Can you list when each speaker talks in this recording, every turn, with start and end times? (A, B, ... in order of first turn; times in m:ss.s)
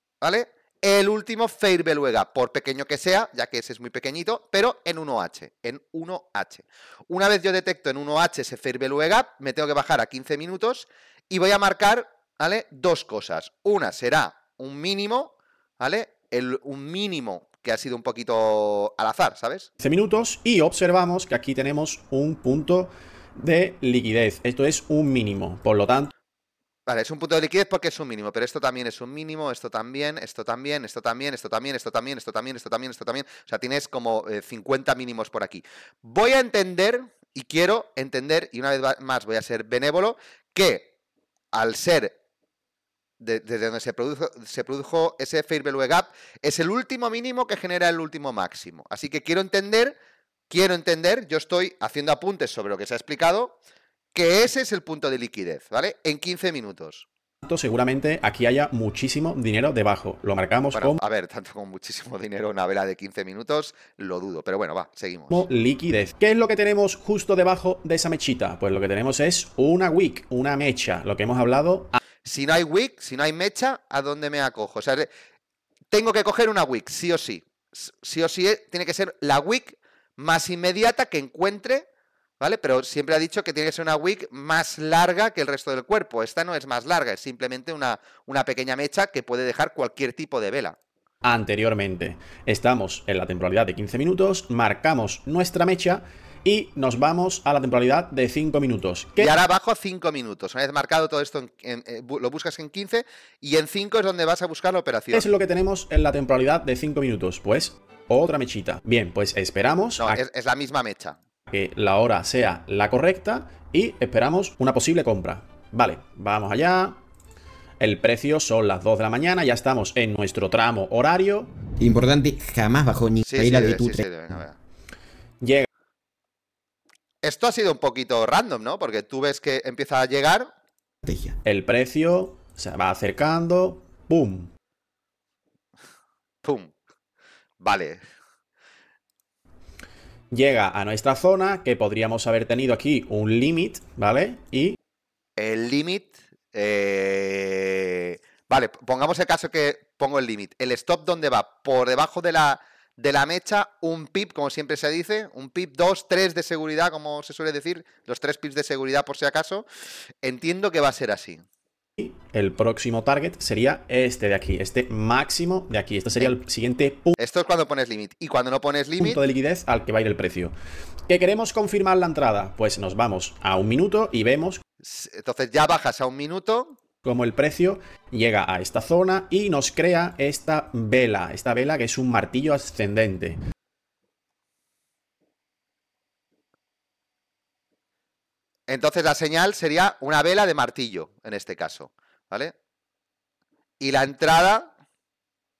0:00.2-0:19.7 A
0:19.8-0:26.1 B
0:26.9-0:40.9 A
0:41.5-0:42.2 A
0:43.2-0:49.9 A
0:50.5-0:53.6 A
0:54.1-0:57.1 A
0:57.4-1:01.0 B
1:00.7-1:05.4 A
1:05.3-1:12.0 B
1:12.2-1:15.1 A
1:15.9-1:21.8 A
1:22.4-1:30.8 A
1:31.2-1:39.3 B
1:39.2-1:45.3 A
1:45.1-1:50.2 B
1:50.0-1:51.2 A
1:51.5-1:57.0 B
1:57.8-2:01.5 B
2:01.8-2:04.0 C
2:03.2-2:04.6 A
2:05.4-2:05.7 B
2:07.2-2:10.5 A
2:11.0-2:11.4 C
2:11.4-2:14.5 B
2:16.4-2:16.7 A
2:17.6-2:18.0 A
2:20.3-2:24.8 B
2:25.4-2:39.6 A
2:40.2-2:41.4 A
2:42.0-2:47.2 B
2:47.2-2:49.2 A
2:49.0-2:50.5 B
2:51.1-2:54.6 B
2:54.8-2:56.8 A
2:57.0-3:03.4 B
3:08.7-3:12.5 A
3:13.8-3:14.7 A